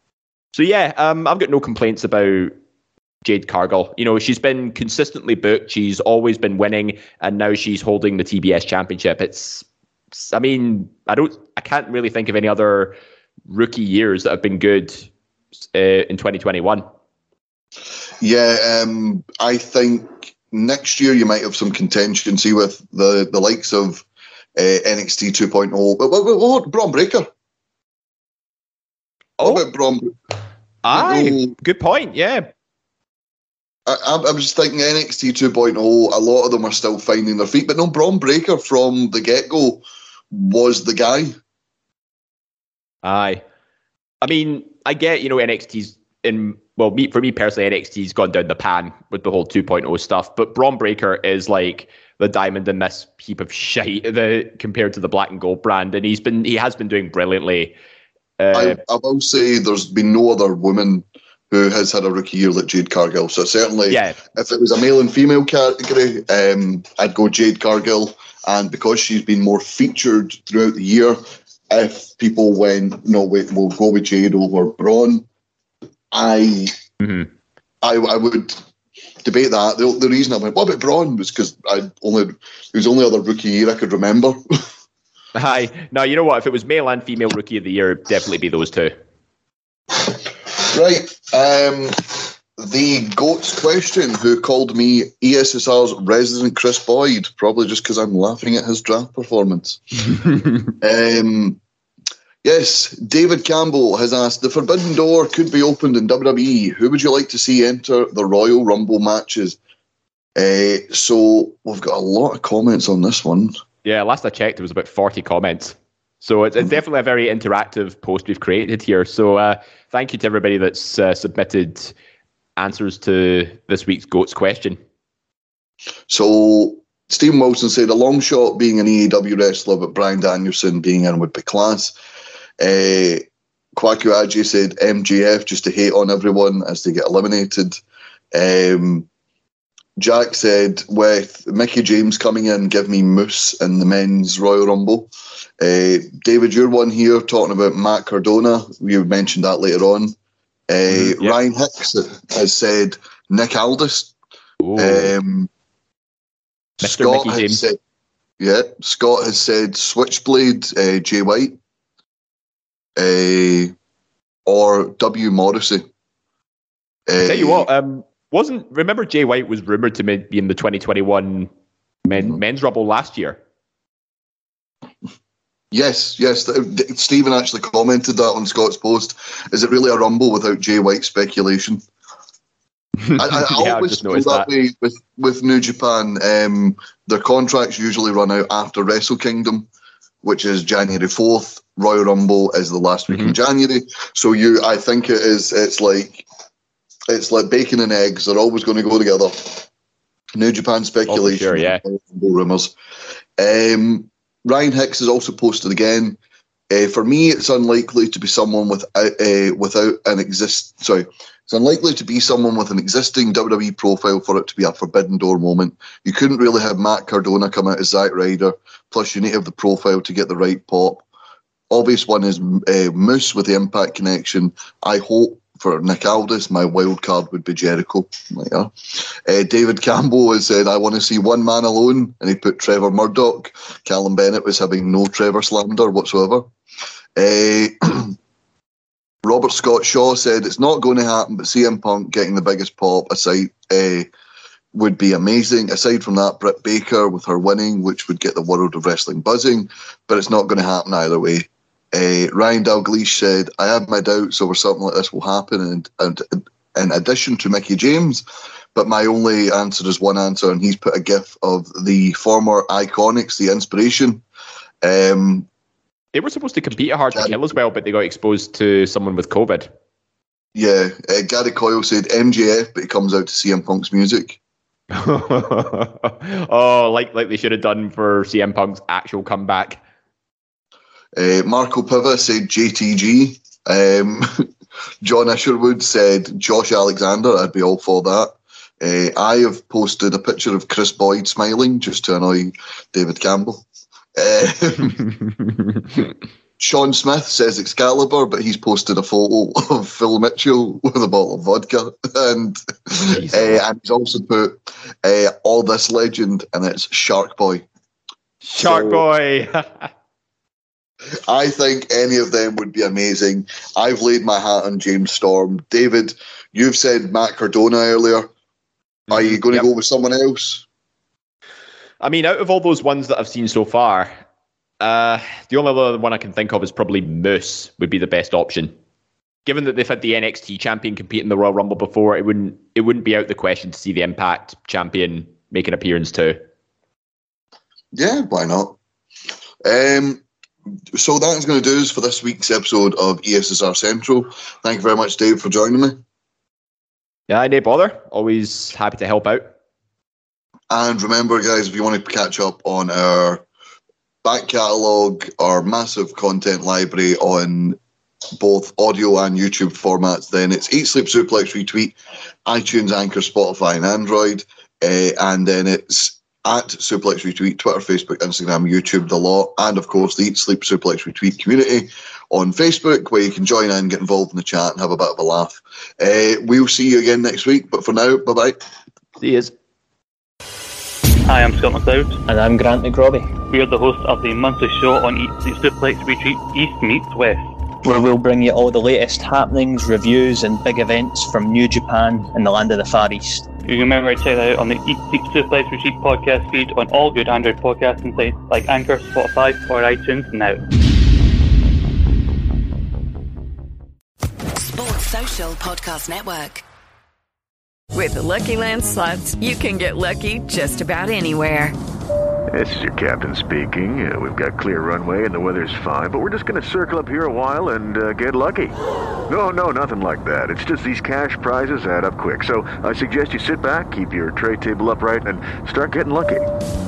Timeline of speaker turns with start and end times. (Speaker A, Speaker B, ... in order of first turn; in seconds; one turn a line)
Speaker A: 0.5-2.5
Speaker A: 3.2-13.0
Speaker A: 13.5-15.1
Speaker A: 15.7-16.9
Speaker B: 18.2-24.1
Speaker B: 24.6-27.3
Speaker B: 29.4-30.1
Speaker A: 30.8-32.5
Speaker B: 30.9-31.5
Speaker B: 33.9-41.4
Speaker A: 43.0-43.4
Speaker A: 44.2-57.7
Speaker A: 58.4-58.8
Speaker B: 58.5-75.2
Speaker A: 63.9-64.2
Speaker B: 76.1-76.8
Speaker A: 77.0-77.3
Speaker B: 77.8-78.6
Speaker B: 79.2-84.4
Speaker A: 85.3-88.9
Speaker B: 90.1-100.3
Speaker B: 100.8-101.6
Speaker B: 102.4-109.6
Speaker B: 110.4-113.5
Speaker A: 113.8-121.9
Speaker A: 122.6-124.8
Speaker B: 126.1-131.9
Speaker B: 132.6-133.2
Speaker B: 133.8-137.8
Speaker B: 138.3-139.1
Speaker B: 140.0-150.2
Speaker B: 150.7-154.2
Speaker A: 150.9-151.4
Speaker A: 154.6-155.1
Speaker B: 154.8-155.5
Speaker B: 156.8-157.8
Speaker A: 156.8-157.6
Speaker B: 158.4-161.6
Speaker B: 163.0-163.7
Speaker B: 164.5-165.8
Speaker B: 167.1-167.7
Speaker A: 167.2-171.5
Speaker A: 172.1-173.4
Speaker B: 175.7-181.8
Speaker A: 183.1-184.5
Speaker B: 183.2-189.7
Speaker B: 190.2-196.3
Speaker A: 193.1-193.4
Speaker B: 197.1-199.7
Speaker B: 200.3-202.8
Speaker A: 201.1-201.8
Speaker B: 203.4-206.2
Speaker B: 206.7-221.0
Speaker B: 221.7-236.5
Speaker B: 237.2-238.2
Speaker B: 239.2-244.1
Speaker B: 244.7-258.2
Speaker B: 258.8-264.2
Speaker B: 264.8-265.5
Speaker A: 266.1-269.7
Speaker B: 270.6-274.4
Speaker A: 274.9-279.8
Speaker B: 281.1-284.5
Speaker B: 285.0-293.6
Speaker B: 294.1-295.0
Speaker B: 296.6-307.6
Speaker A: 303.1-303.6
Speaker A: 308.4-309.9
Speaker B: 308.6-309.1
Speaker B: 311.3-318.3
Speaker A: 319.1-319.7
Speaker B: 319.1-320.7
Speaker A: 322.0-324.1
Speaker A: 324.8-328.7
Speaker A: 329.5-336.4
Speaker B: 337.9-338.8
Speaker B: 339.6-340.2
Speaker B: 340.9-346.0
Speaker A: 347.3-349.5
Speaker B: 350.7-353.4
Speaker B: 354.2-357.8
Speaker B: 358.4-378.6
Speaker A: 379.2-379.5
Speaker C: 381.3-382.2
Speaker D: 382.3-383.4
Speaker C: 383.5-387.5
Speaker D: 387.8-393.5
Speaker C: 393.6-400.6
Speaker E: 404.6-406.6
Speaker F: 407.9-411.8
Speaker G: 412.5-418.8
Speaker G: 419.3-426.5